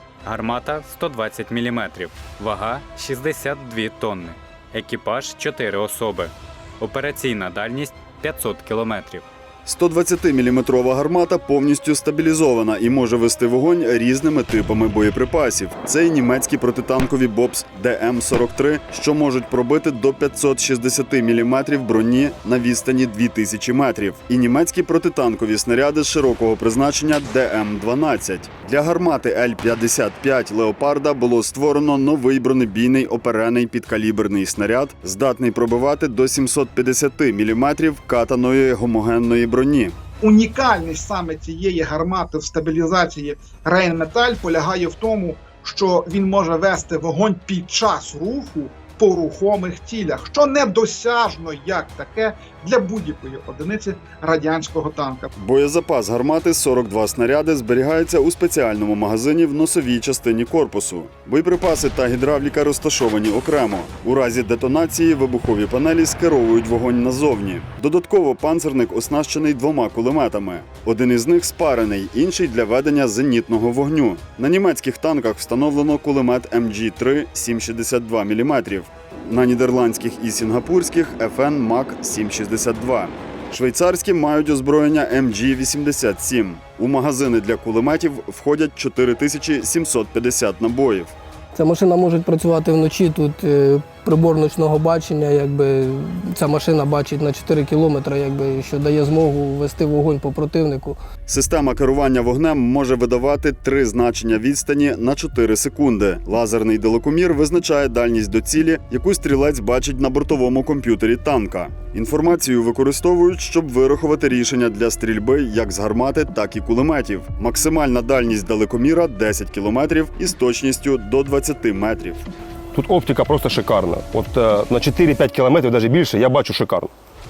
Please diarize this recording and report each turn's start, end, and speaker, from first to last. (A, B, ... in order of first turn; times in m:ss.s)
0:00.2-0:09.2 A
0:09.6-0:40.0 B
0:40.2-0:55.3 C
0:55.3-1:31.1 B
1:31.5-1:41.0 D
1:41.3-2:02.2 B
2:02.7-2:06.9 E